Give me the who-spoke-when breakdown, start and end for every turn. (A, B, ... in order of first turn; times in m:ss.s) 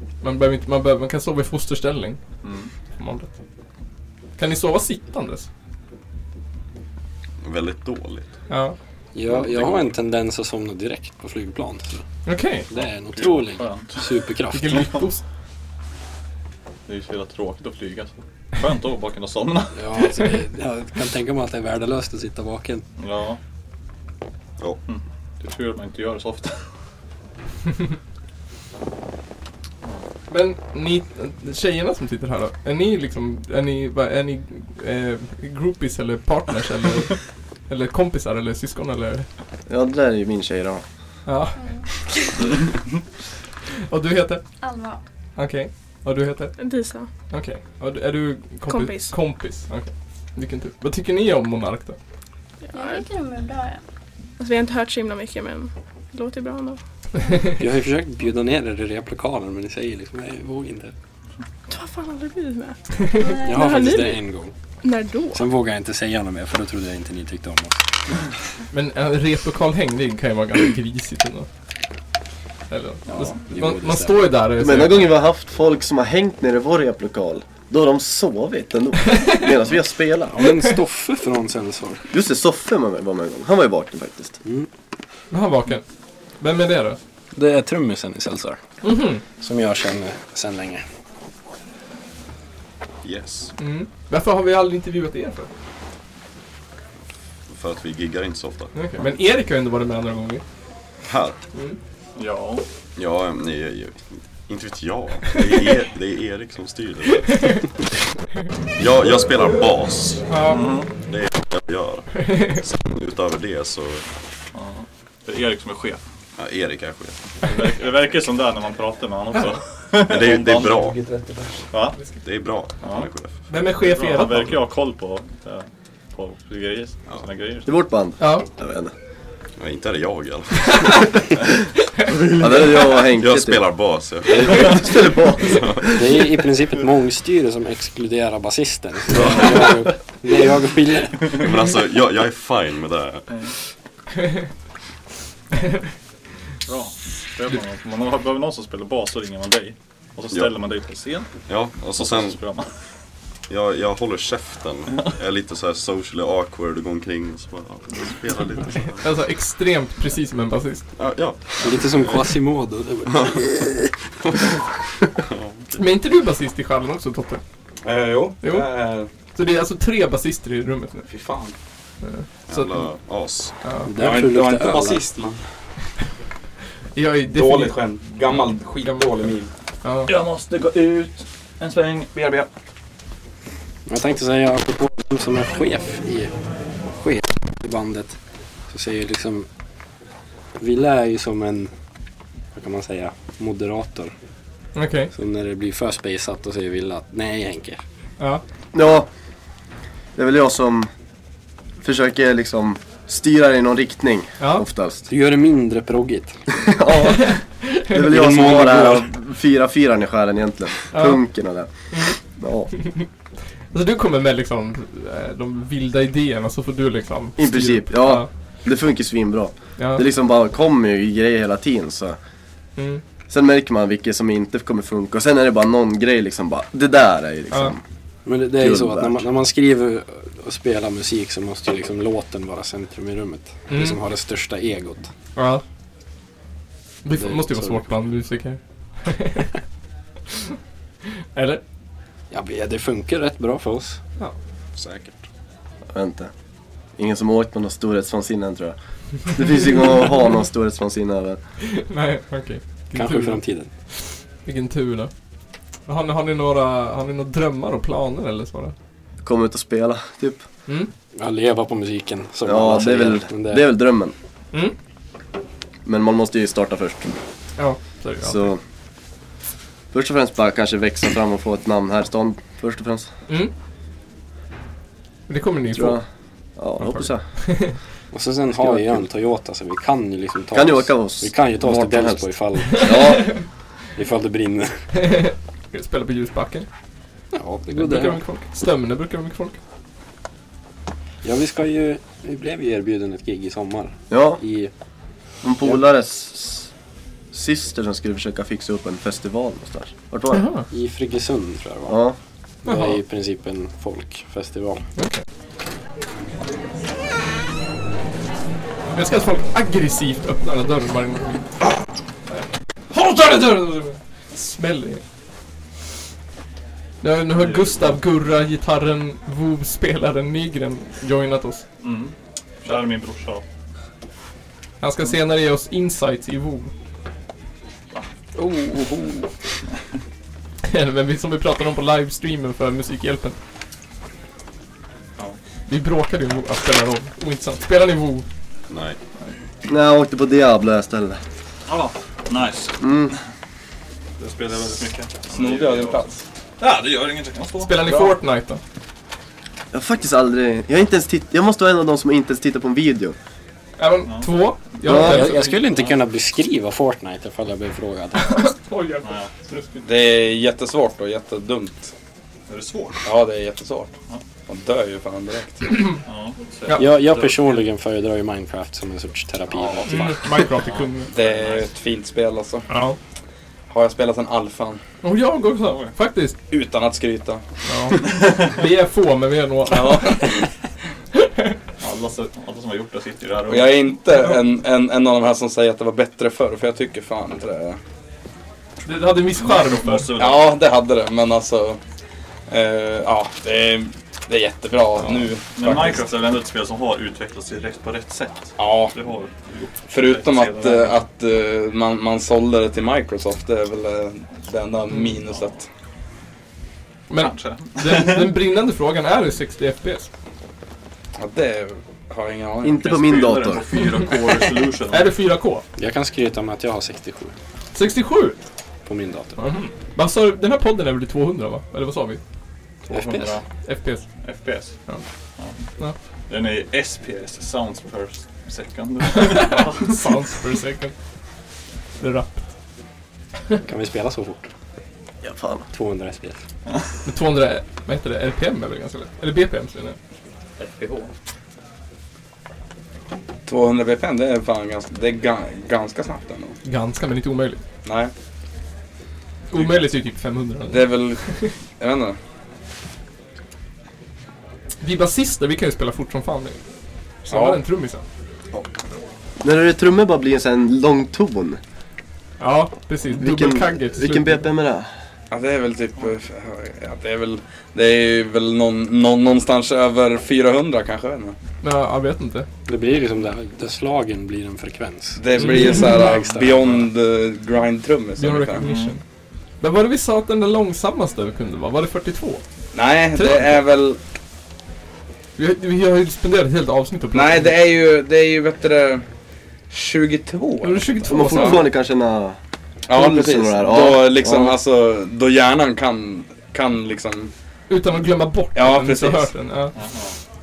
0:00.2-0:02.2 A
0:02.4-0:02.7 B
0:03.0-0:03.3 A
0:04.4-0:05.5 A
0:07.4-0:08.3 C
0:08.5-0:08.8 A
0:09.1-0:12.0 D
0:12.3-0:12.7 A
0:12.7-0:15.0 D
0:13.1-0:14.3 B
0:14.5-0:15.2 A
0:16.9-0:19.8 B
0:19.7-0:22.8 D
0:23.0-0:23.4 B
0:24.9-0:26.6 B
0:30.3-0:39.3 A
0:39.7-0:40.8 E
0:41.3-0:41.6 A
0:41.6-0:42.3 F
0:43.9-0:44.4 A
0:44.6-0:45.0 F
0:45.4-0:46.6 A
0:46.6-0:47.1 G
0:47.3-0:52.0 A
0:48.7-0:49.1 G
0:52.7-0:53.1 G
0:52.7-0:53.8 F
0:54.4-0:56.8 G
0:57.2-0:57.5 A
0:57.5-1:00.9 D
1:01.7-1:04.2 G
1:03.2-1:03.8 F
1:03.5-1:04.5 D
1:04.8-1:05.5 G
1:05.3-1:07.8 D
1:08.7-1:11.5 A
1:12.7-1:15.1 A
1:13.1-1:13.4 B
1:13.5-1:14.3 D
1:14.6-1:20.4 E
1:20.3-1:22.1 D
1:22.1-1:24.4 E
1:25.3-1:25.8 A
1:26.4-1:27.0 A
1:27.3-1:28.6 D
1:28.8-1:29.2 A
1:29.4-1:30.8 D
1:33.0-1:33.5 C
1:33.6-1:35.5 A
1:37.5-1:38.8 C
1:38.8-1:40.4 A
1:41.0-1:41.4 C
1:42.2-1:42.6 B
1:43.0-1:47.6 C
1:48.8-1:50.4 C
1:50.3-1:50.7 A
1:50.5-1:50.9 B
1:51.1-1:54.0 C
1:52.3-1:52.6 A
1:54.5-1:56.0 B
1:56.4-1:57.2 C
1:57.4-2:00.8 B
2:00.0-2:01.0 C
2:00.7-2:01.7 H
2:01.7-2:02.0 B
2:02.2-2:03.3 C
2:02.8-2:03.1 B
2:03.5-2:04.6 A
2:03.8-2:07.7 B
2:07.7-2:08.9 E
2:08.2-2:08.5 A
2:09.6-2:11.1 C
2:12.1-2:13.6 E
2:12.9-2:14.9 C
2:14.3-2:16.2 E
2:15.4-2:16.0 C
2:16.0-2:21.5 D
2:19.1-2:19.6 C
2:21.3-2:23.3 C
2:26.7-2:31.3 B
2:31.5-2:32.4 C
2:32.0-2:32.7 B
2:33.5-2:39.1 C
2:39.0-2:40.8 A
2:41.0-2:42.2 C
2:41.6-2:43.6 D
2:44.3-2:44.5 C
2:45.2-2:45.8 C
2:45.8-2:47.4 A
2:47.8-2:49.1 H
2:49.3-2:51.1 A
2:51.1-2:51.6 H
2:52.0-2:52.9 A
2:52.5-2:53.6 C
2:53.6-2:53.9 A
2:53.8-2:55.0 D
2:54.0-2:55.5 H
2:57.0-2:57.8 A
2:57.3-2:59.5 H
2:59.8-3:00.1 A
3:00.1-3:02.5 B
3:03.9-3:06.3 D
3:07.0-3:08.2 D
3:08.7-3:09.5 D
3:10.6-3:11.7 D
3:12.6-3:14.1 D
3:14.8-3:15.1 A
3:15.1-3:17.8 D
3:18.7-3:19.1 E
3:20.2-3:20.9 E
3:21.8-3:25.1 E
3:24.4-3:24.7 A
3:25.1-3:26.4 D
3:26.6-3:32.7 E
3:27.1-3:28.0 A
3:28.1-3:29.1 D
3:30.9-3:31.2 A
3:31.9-3:32.2 A
3:32.8-3:33.1 A
3:33.7-3:38.3 A
3:37.4-3:42.2 E
3:39.8-3:40.1 A
3:42.8-3:43.0 A
3:43.3-3:47.8 E
3:48.3-3:55.1 D
3:48.5-3:49.3 E
3:53.7-3:54.0 A
3:55.4-3:55.6 A
3:57.0-3:59.5 A
3:57.1-3:57.9 D
4:01.3-4:01.6 A
4:02.3-4:04.0 D
4:04.8-4:05.2 C
4:05.9-4:06.3 E
4:07.0-4:08.8 E
4:09.3-4:11.4 E
4:11.6-4:13.4 A
4:13.0-4:13.7 D
4:14.4-4:15.1 A
4:15.9-4:18.7 A
4:19.2-4:20.4 E
4:21.2-4:23.7 D
4:22.4-4:24.1 E
4:25.8-4:27.1 E
4:27.6-4:28.5 A
4:28.2-4:28.6 E
4:29.9-4:33.1 E
4:35.3-4:36.0 A
4:35.7-4:36.0 E
4:36.6-4:37.3 E
4:36.8-4:37.8 A
4:38.1-4:43.3 D
4:38.5-4:39.1 E
4:40.5-4:43.4 E
4:42.8-4:43.3 A
4:44.0-4:44.9 D
4:45.0-4:46.7 A
4:47.3-4:48.2 D
4:47.7-4:49.6 A
4:51.2-4:54.7 D
4:54.1-4:54.4 E
4:55.4-4:56.7 E
4:57.3-5:00.5 E
5:00.3-5:00.7 A
5:00.7-5:02.0 D
5:01.9-5:02.2 E
5:02.6-5:03.0 A
5:02.6-5:04.8 D
5:05.0-5:05.2 A
5:08.9-5:11.5 A
5:12.9-5:15.0 A
5:17.0-5:21.6 A
5:17.4-5:18.0 B
5:21.8-5:23.4 B
5:24.8-5:26.7 A
5:28.4-5:29.3 H
5:30.7-5:33.4 A
5:35.7-5:38.3 A
5:38.7-5:39.0 C
5:39.7-5:41.2 E
5:41.7-5:43.2 B
5:42.8-5:43.2 E
5:44.2-5:46.1 B
5:45.3-5:46.2 H
5:46.6-5:47.7 B
5:47.6-5:48.6 A
5:47.8-5:48.2 H
5:49.7-5:53.2 E
5:53.8-5:55.6 A
5:54.9-5:58.5 D
5:54.9-5:55.3 E
5:58.3-5:59.9 A
5:59.0-5:59.3 B
5:59.8-6:01.9 H
6:02.5-6:03.0 B
6:03.0-6:03.9 H
6:04.5-6:05.8 H
6:06.0-6:06.8 B
6:06.8-6:10.4 D
6:06.9-6:07.7 H
6:09.5-6:10.2 H
6:09.9-6:11.1 A
6:10.6-6:11.7 B
6:11.1-6:12.7 H
6:12.7-6:13.0 A
6:13.7-6:14.8 H
6:15.0-6:16.4 A
6:15.6-6:15.9 B
6:16.5-6:17.4 H
6:17.7-6:20.4 A
6:18.0-6:18.4 B
6:19.7-6:20.5 H
6:21.2-6:21.5 A
6:21.8-6:23.8 B
6:23.5-6:27.8 H
6:28.8-6:30.1 A
6:29.4-6:30.5 B
6:30.2-6:31.8 H
6:32.5-6:36.1 H
6:35.6-6:41.0 B
6:38.6-6:39.0 H
6:39.9-6:45.7 H
6:45.3-6:45.6 B
6:47.1-6:50.1 A
6:47.2-6:48.3 B
6:51.2-6:53.3 H
6:52.6-6:53.7 E
6:52.9-6:55.2 B
6:54.9-6:55.6 A
6:55.8-6:57.3 D
6:57.8-6:58.4 A
6:58.9-6:59.4 D
6:59.4-7:02.2 A
7:02.9-7:04.0 A
7:02.9-7:03.2 D
7:03.0-7:03.4 B
7:04.2-7:04.8 B
7:06.3-7:10.2 B
7:09.1-7:10.9 A
7:12.0-7:12.4 A
7:13.6-7:14.5 D
7:15.2-7:15.7 E
7:15.7-7:16.4 D
7:17.0-7:20.0 A
7:20.6-7:21.0 B
7:20.6-7:21.1 H
7:23.5-7:26.6 H
7:26.6-7:27.6 A
7:27.8-7:28.1 H
7:29.5-7:31.5 A
7:29.5-7:30.0 H
7:30.7-7:32.2 H
7:34.8-7:36.6 A
7:37.2-7:38.0 A
7:37.3-7:37.6 H
7:39.4-7:41.6 E
7:42.4-7:44.5 A
7:43.2-7:44.9 E
7:45.3-7:51.4 H
7:51.6-7:52.5 A
7:52.7-7:56.9 D
7:55.2-7:58.7 H
7:55.4-7:56.0 A
7:58.2-7:59.0 A
7:58.6-7:59.0 B
7:59.6-8:02.4 A
8:02.7-8:04.0 H
8:03.2-8:03.6 A
8:05.4-8:07.6 A
8:07.1-8:09.0 H
8:09.7-8:11.7 H
8:10.6-8:11.7 A
8:11.1-8:12.4 E
8:12.9-8:17.3 H
8:12.9-8:14.6 E
8:17.7-8:19.7 A
8:18.6-8:19.3 H
8:19.7-8:20.1 B